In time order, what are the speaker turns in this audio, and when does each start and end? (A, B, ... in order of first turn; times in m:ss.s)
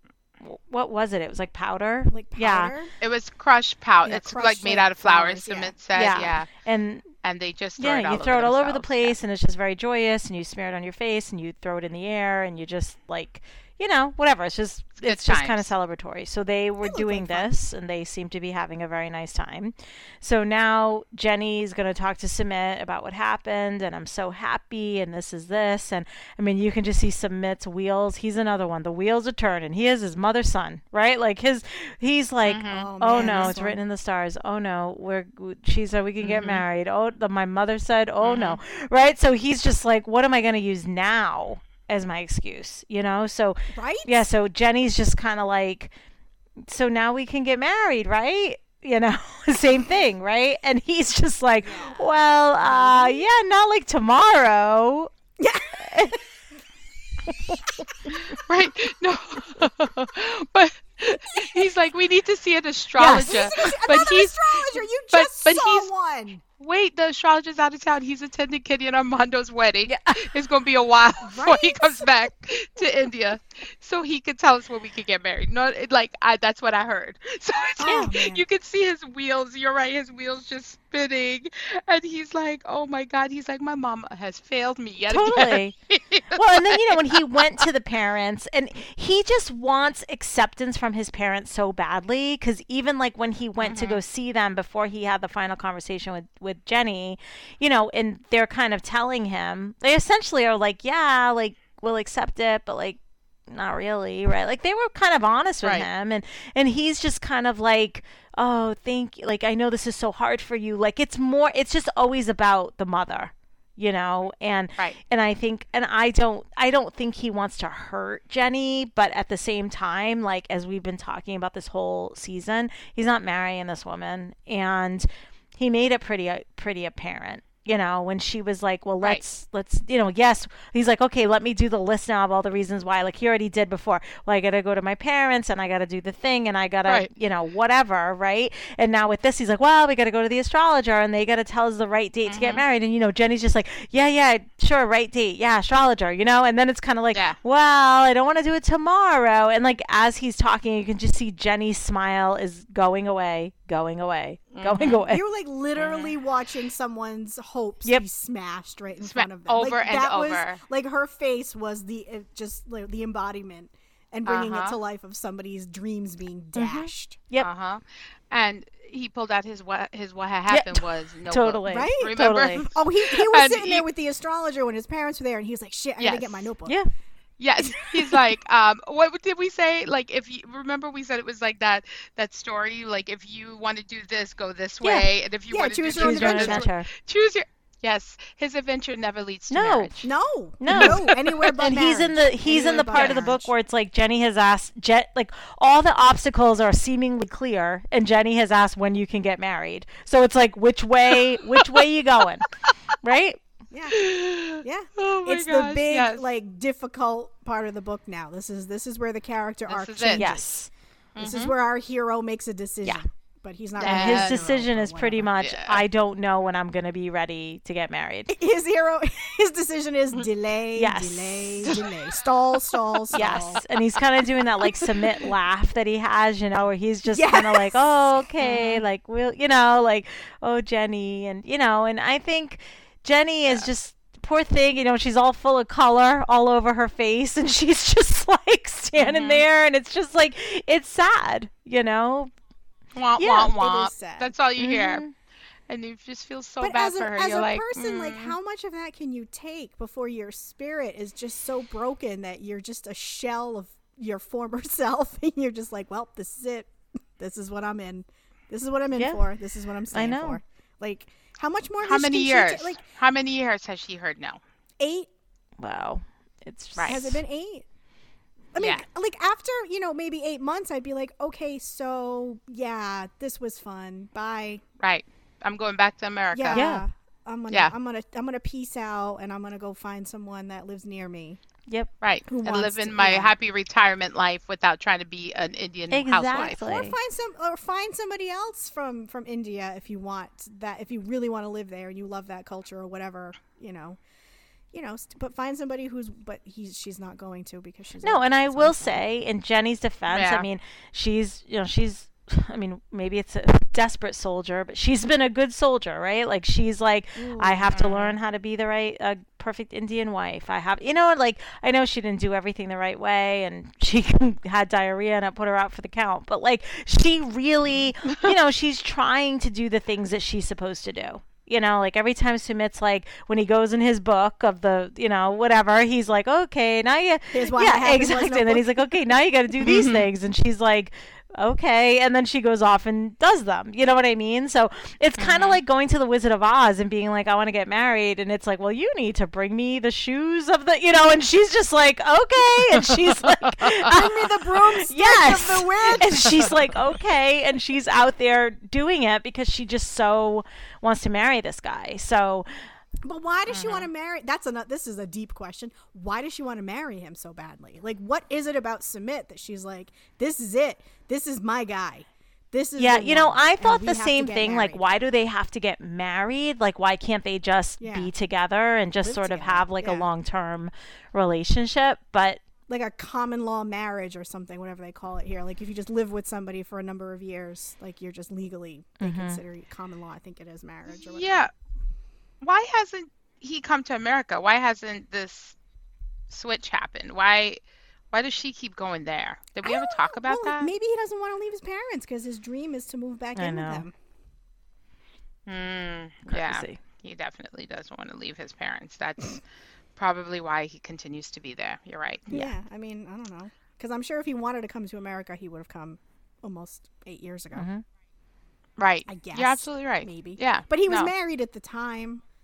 0:00.4-0:02.7 A
0:02.1-0:02.9 B
0:03.0-0:06.5 C
0:04.0-0:05.8 B
0:05.9-0:07.1 A
0:07.2-0:09.2 C
0:07.8-0:45.9 A
0:15.0-0:15.7 C
0:16.8-0:17.5 B
0:32.5-0:33.6 C
0:32.7-0:33.8 B
0:36.2-0:36.6 C
0:38.2-0:38.6 C
0:43.7-0:44.3 B
0:46.6-0:55.1 A
0:51.6-0:53.3 B
0:55.4-0:56.2 B
0:55.8-0:56.2 A
0:57.5-0:58.1 B
0:58.3-1:05.9 C
1:03.0-1:03.7 A
1:03.2-1:06.4 B
1:06.6-1:27.6 C
1:09.9-1:10.3 A
1:11.2-1:12.2 B
1:17.8-1:18.4 B
1:25.1-1:25.7 A
1:26.3-2:35.2 A
1:33.6-1:34.0 C
2:22.3-2:22.6 C
2:34.5-2:35.1 C
2:35.1-2:47.2 B
2:35.8-2:36.1 C
2:39.0-2:40.6 C
2:44.3-2:44.8 C
2:46.6-2:47.5 A
2:47.4-2:53.8 C
2:50.5-2:52.7 A
2:51.7-2:56.8 B
2:56.0-2:56.5 C
2:57.4-3:10.0 C
2:57.6-2:58.2 B
3:04.8-3:05.1 A
3:05.5-3:06.7 B
3:06.0-3:06.9 A
3:09.5-3:10.1 A
3:10.0-3:13.5 B
3:10.6-3:22.5 A
3:10.7-3:11.0 C
3:23.0-3:23.4 A
3:23.7-3:30.5 B
3:23.9-3:26.3 C
3:29.7-3:30.3 C
3:30.1-3:30.7 A
3:31.2-3:31.5 C
3:31.2-3:35.3 B
3:33.8-3:34.5 C
3:33.8-3:38.3 A
3:35.4-3:35.8 C
3:38.3-3:43.6 B
3:40.8-3:41.7 A
3:41.6-3:43.6 C
3:43.1-4:02.3 A
3:47.1-3:48.5 B
3:48.4-3:48.8 C
3:59.0-3:59.4 C
4:02.9-4:05.0 C
4:03.2-4:03.5 A
4:03.5-4:04.3 B
4:04.6-4:05.1 A
4:05.7-4:08.4 C
4:06.6-4:22.8 B
4:19.0-4:19.2 A
4:19.9-4:20.4 A
4:21.8-4:24.4 C
4:24.8-4:25.1 B
4:25.6-4:27.2 A
4:26.8-4:27.0 C
4:26.9-4:27.7 B
4:28.5-4:34.6 B
4:28.6-4:28.8 C
4:34.8-4:36.7 C
4:36.3-4:41.4 B
4:36.5-4:36.8 A
4:42.0-4:46.6 C
4:42.3-4:43.3 B
4:45.9-4:47.0 A
4:46.4-4:54.0 B
4:54.7-4:59.0 B
4:58.0-5:52.7 A
5:00.1-5:00.5 C
5:07.2-5:07.7 B
5:07.7-5:08.2 C
5:18.1-5:18.3 C
5:27.3-5:28.9 B
5:29.6-5:30.1 C
5:35.2-5:35.6 C
5:42.9-5:43.9 C
5:43.9-5:46.7 B
5:53.0-6:04.8 B
5:53.5-5:53.9 C
6:02.8-6:12.4 A
6:07.8-6:08.1 B
6:09.0-6:10.1 B
6:12.7-6:21.5 B
6:19.0-6:19.4 A
6:20.9-6:21.5 C
6:22.4-6:25.6 C
6:26.3-6:27.6 C
6:28.1-6:30.7 C
6:29.6-6:33.9 B
6:33.4-6:33.8 A
6:35.5-6:39.4 C
6:36.3-6:36.8 A
6:40.0-6:42.4 C
6:42.3-6:47.7 B
6:47.6-6:47.8 A
6:48.8-6:51.1 C
6:49.1-6:52.2 B